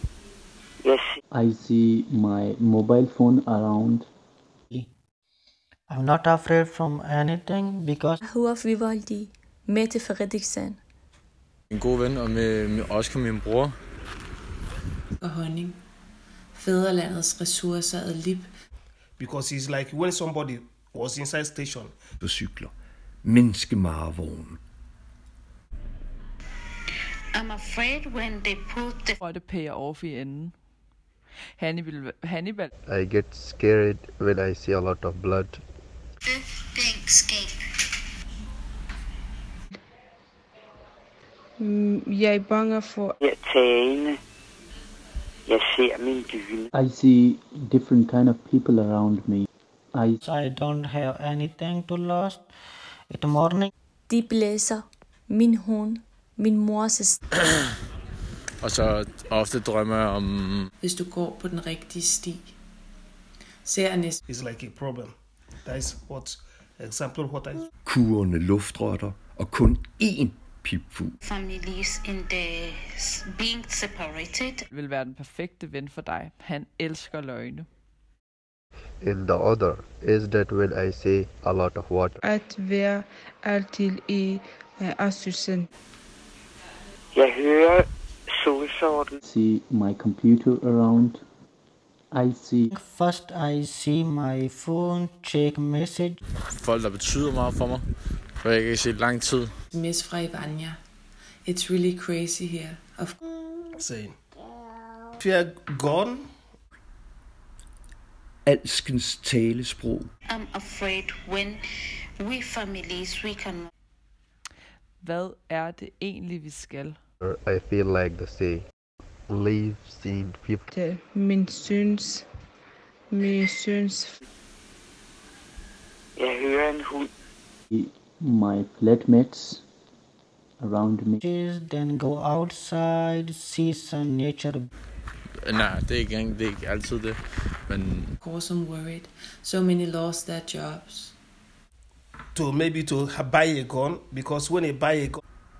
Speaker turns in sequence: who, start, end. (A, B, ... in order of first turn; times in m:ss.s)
0:00.8-0:01.1 A
0:01.3-0:04.1 B
0:05.9-0:08.2 C
0:08.2-0:10.8 D
0:11.7-0:13.7 E
0:15.2-0:15.8 F
0:16.5-0:18.5 F
0:19.2-0:22.0 G
0:22.2-0:24.6 H
0:27.3-0:29.2 I
0:29.2-0:30.5 J
0:31.6-0:32.7 J
0:32.9-0:35.6 K
0:36.2-0:37.6 A
0:41.6-0:43.2 L
0:43.2-0:44.2 A
0:45.5-0:46.7 A
0:46.7-0:50.2 B
0:50.2-0:52.4 C
0:53.1-0:53.7 C
0:54.1-0:57.2 D
0:58.6-1:00.7 E
1:00.8-1:02.5 F
1:03.6-1:04.2 F
1:04.3-1:05.1 G
1:05.6-1:07.7 G
1:07.8-1:11.1 H
1:11.2-1:14.6 I
1:14.7-1:17.7 J
1:19.0-1:22.2 K
1:22.2-1:25.7 L
1:27.1-1:29.2 A
1:29.2-1:31.2 B
1:32.1-1:32.7 B
1:32.7-1:36.2 C
1:36.5-1:37.8 E
1:38.4-1:39.5 E
1:39.7-1:40.8 F
1:41.4-1:43.2 F
1:43.7-1:44.2 G
1:45.2-1:46.3 G
1:48.4-1:50.1 H
1:50.3-1:51.6 I
1:52.2-1:53.7 I
1:55.0-1:57.0 J
1:57.2-1:58.6 K
1:59.3-2:00.7 K
2:00.7-2:02.2 L
2:03.1-2:04.2 L
2:06.2-2:07.1 A
2:07.7-2:09.6 B
2:10.6-2:11.2 B
2:11.2-2:14.7 C
2:15.4-2:18.1 E
2:18.2-2:21.1 F
2:22.3-2:25.2 G